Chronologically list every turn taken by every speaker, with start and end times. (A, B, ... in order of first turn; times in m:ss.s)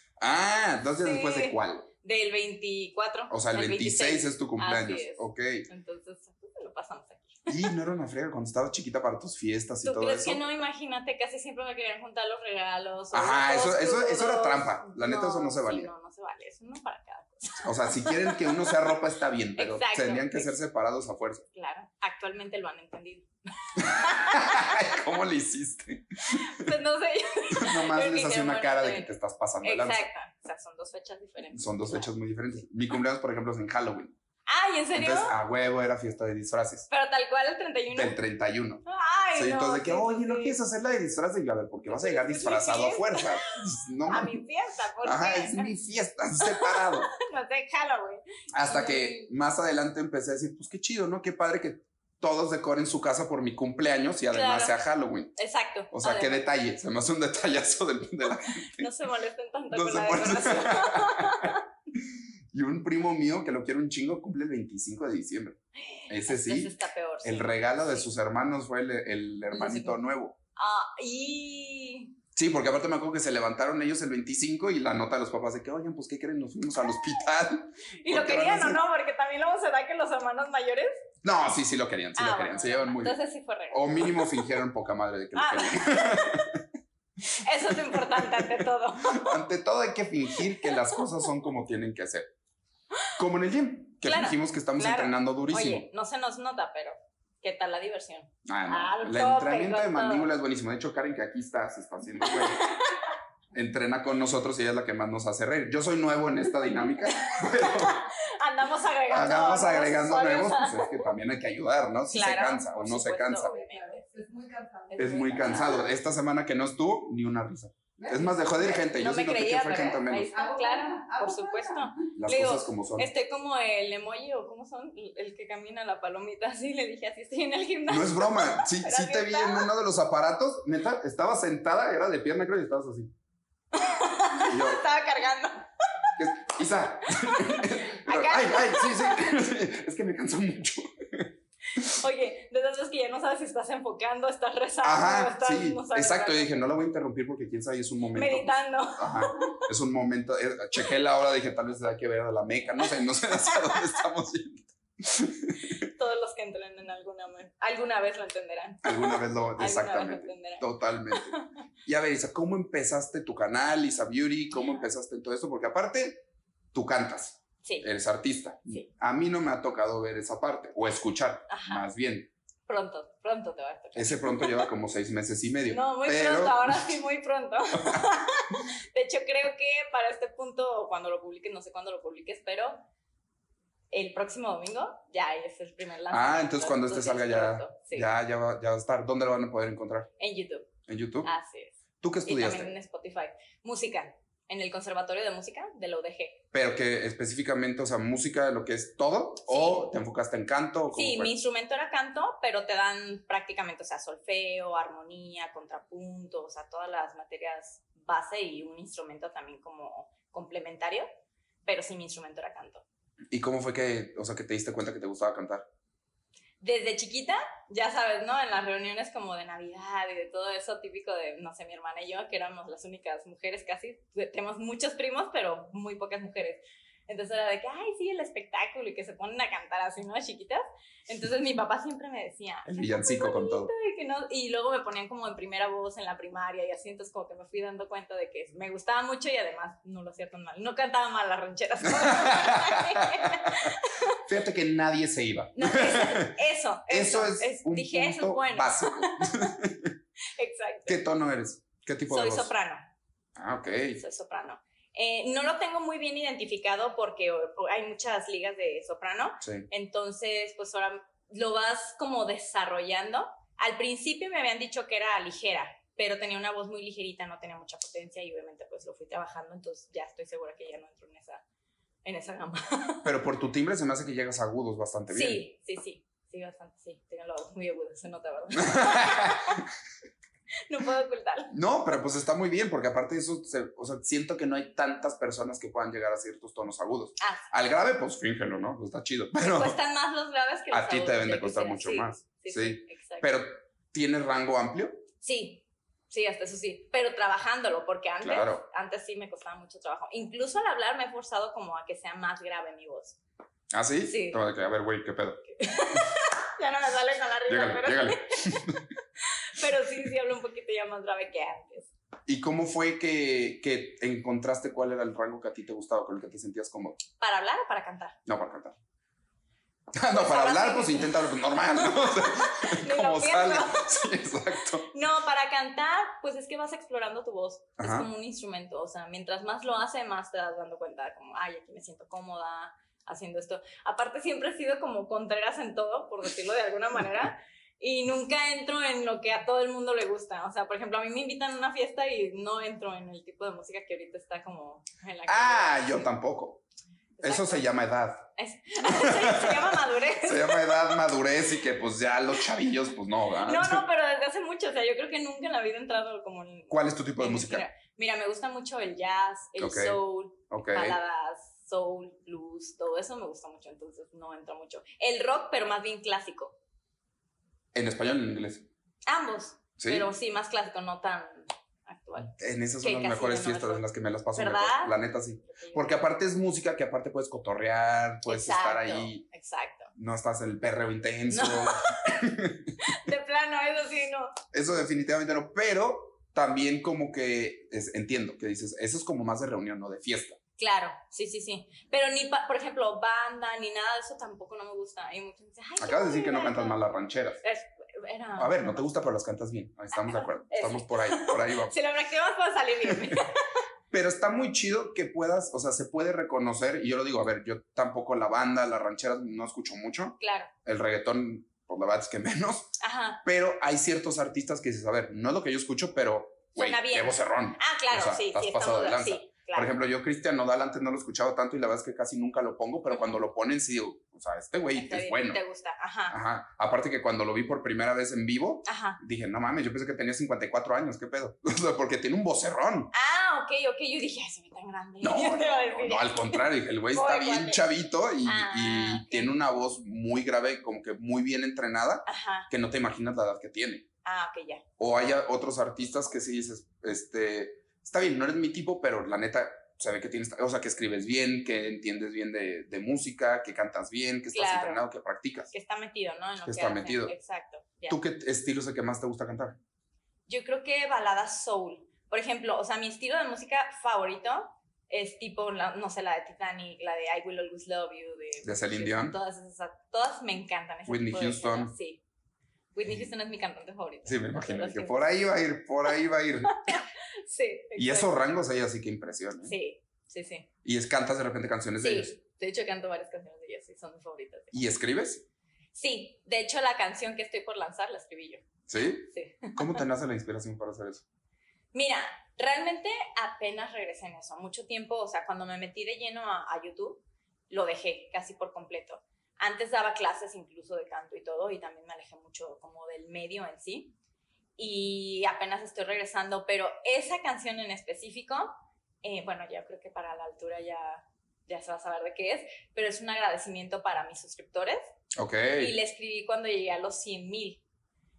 0:00.2-0:01.9 A
0:01.0-0:07.7 B
0:03.3-0:05.6 A
0:07.5-0:10.4 A
0:09.8-0:18.7 B
0:13.1-0:15.9 A
0:17.6-0:21.4 A
0:19.6-0:20.5 B
0:21.5-0:24.9 B
0:23.8-0:26.7 A
0:26.3-0:29.1 B
0:27.6-0:30.1 A
0:29.6-0:32.1 B
0:31.5-0:34.2 A
0:34.5-0:35.3 B
0:34.9-0:36.8 A
0:36.9-0:38.2 B
0:37.9-0:38.8 A
0:38.8-0:40.6 B
0:39.3-0:44.3 A
0:41.9-0:45.7 B
0:45.0-0:47.1 A
0:46.4-0:49.3 B
0:48.5-0:55.3 A
0:54.3-0:54.8 B
0:55.4-0:56.5 B
0:55.9-0:58.9 A
0:58.8-1:01.6 B
0:59.7-1:01.6 A
1:02.5-1:06.7 A
1:05.8-1:08.1 B
1:07.2-1:10.4 A
1:09.5-1:10.0 B
1:10.6-1:12.1 B
1:12.4-1:18.8 A
1:18.0-1:20.9 B
1:21.2-1:23.2 A
1:22.2-1:24.4 B
1:23.7-1:26.6 A
1:25.3-1:26.5 B
1:27.3-1:29.4 B
1:27.7-1:32.3 A
1:30.6-1:30.9 B
1:33.2-1:35.8 A
1:34.0-1:40.3 B
1:38.4-1:42.7 A
1:42.2-1:43.2 B
1:43.5-1:48.0 A
1:47.0-1:51.1 B
1:49.1-1:53.6 A
1:52.1-1:54.0 B
1:53.5-1:55.8 C
1:55.0-2:00.3 A
1:55.0-1:55.8 B
1:58.0-1:58.5 C
1:58.6-2:09.7 B
2:00.3-2:02.1 C
2:02.2-2:03.1 A
2:07.9-2:13.1 A
2:13.7-2:16.1 B
2:14.4-2:14.8 A
2:16.2-2:21.8 A
2:17.2-2:19.2 B
2:21.7-2:26.7 B
2:24.8-2:35.7 A
2:28.1-2:29.7 B
2:35.6-2:41.5 B
2:38.8-2:46.2 A
2:44.5-2:44.8 B
2:46.7-2:52.3 A
2:51.5-2:51.8 B
2:52.7-2:54.7 B
2:53.9-2:57.0 A
2:55.7-3:02.8 B
3:03.9-3:08.1 B
3:06.1-3:10.1 A
3:10.2-3:10.7 B
3:10.8-3:11.3 A
3:11.2-3:16.4 B
3:12.0-3:12.7 A
3:16.5-3:21.3 A
3:19.5-3:19.9 B
3:20.9-3:31.1 B
3:31.6-3:32.8 B
3:33.3-3:35.6 A
3:36.6-4:04.2 B
3:52.6-3:53.7 A
4:01.9-4:06.3 A
4:05.6-4:09.5 B
4:06.9-4:09.9 A
4:10.4-4:11.0 B
4:10.8-4:12.5 A
4:12.1-4:12.8 B
4:13.4-4:14.0 A
4:14.0-4:31.4 B
4:19.4-4:19.7 A
4:32.0-4:33.1 B
4:33.0-4:35.4 A
4:35.1-4:39.6 B
4:38.6-4:39.6 A
4:40.7-4:41.5 B
4:41.5-4:49.8 A
4:47.2-4:47.5 B
4:49.4-4:53.3 B
4:50.7-4:55.0 A
4:55.2-5:03.2 B
4:58.2-4:58.6 A
5:03.7-5:05.4 A
5:04.0-5:04.4 B
5:05.5-5:11.9 B
5:07.5-5:08.8 A
5:12.3-5:17.0 A
5:17.2-5:18.2 B
5:18.3-5:18.8 A
5:19.9-5:24.9 A
5:20.1-5:21.2 B
5:21.8-5:23.9 B
5:24.9-5:46.1 B
5:27.8-5:28.1 A
5:45.3-5:46.6 A
5:47.2-5:47.6 B
5:47.2-5:48.2 A
5:48.4-5:51.0 B
5:48.8-5:53.8 A
5:53.4-6:06.6 B
5:56.7-5:57.6 A
5:59.6-6:00.0 A
6:00.5-6:01.0 A
6:07.7-6:08.7 A
6:09.0-6:16.0 B
6:09.8-6:10.1 A
6:12.3-6:19.2 A
6:18.2-6:19.9 B
6:19.9-6:22.7 A
6:21.3-6:22.2 B
6:22.8-6:24.3 B
6:24.5-6:30.4 A
6:30.6-6:36.8 B
6:35.8-6:37.4 A
6:37.4-6:38.8 B
6:38.4-6:41.8 A
6:39.9-6:43.4 B
6:42.9-6:43.2 A
6:43.9-7:05.4 A
6:50.2-6:50.5 B
6:52.8-6:53.2 B
6:56.5-6:59.8 B
7:02.9-7:03.2 B
7:04.7-7:06.2 B
7:06.1-7:12.9 A
7:08.6-7:09.0 B
7:12.9-7:17.6 B
7:15.0-7:23.9 A
7:18.2-7:19.4 B
7:22.1-7:22.5 B
7:24.0-7:24.6 B
7:24.8-7:35.5 A
7:34.3-7:34.8 B
7:35.5-7:38.0 B
7:36.4-7:37.1 A
7:37.9-7:39.6 A
7:40.3-7:52.0 B
7:48.4-7:49.2 A
7:50.9-7:51.7 A
7:52.7-7:55.0 B
7:54.0-7:56.8 A
7:56.5-7:58.2 B
7:57.8-7:59.6 A
7:59.4-8:00.5 B
8:00.6-8:02.1 A
8:01.8-8:04.5 B
8:04.5-8:05.2 A
8:05.7-8:08.4 B
8:08.7-8:11.0 A
8:09.1-8:09.8 B
8:11.7-8:23.9 B
8:24.6-8:34.8 B
8:35.2-8:35.7 A
8:35.5-8:37.6 B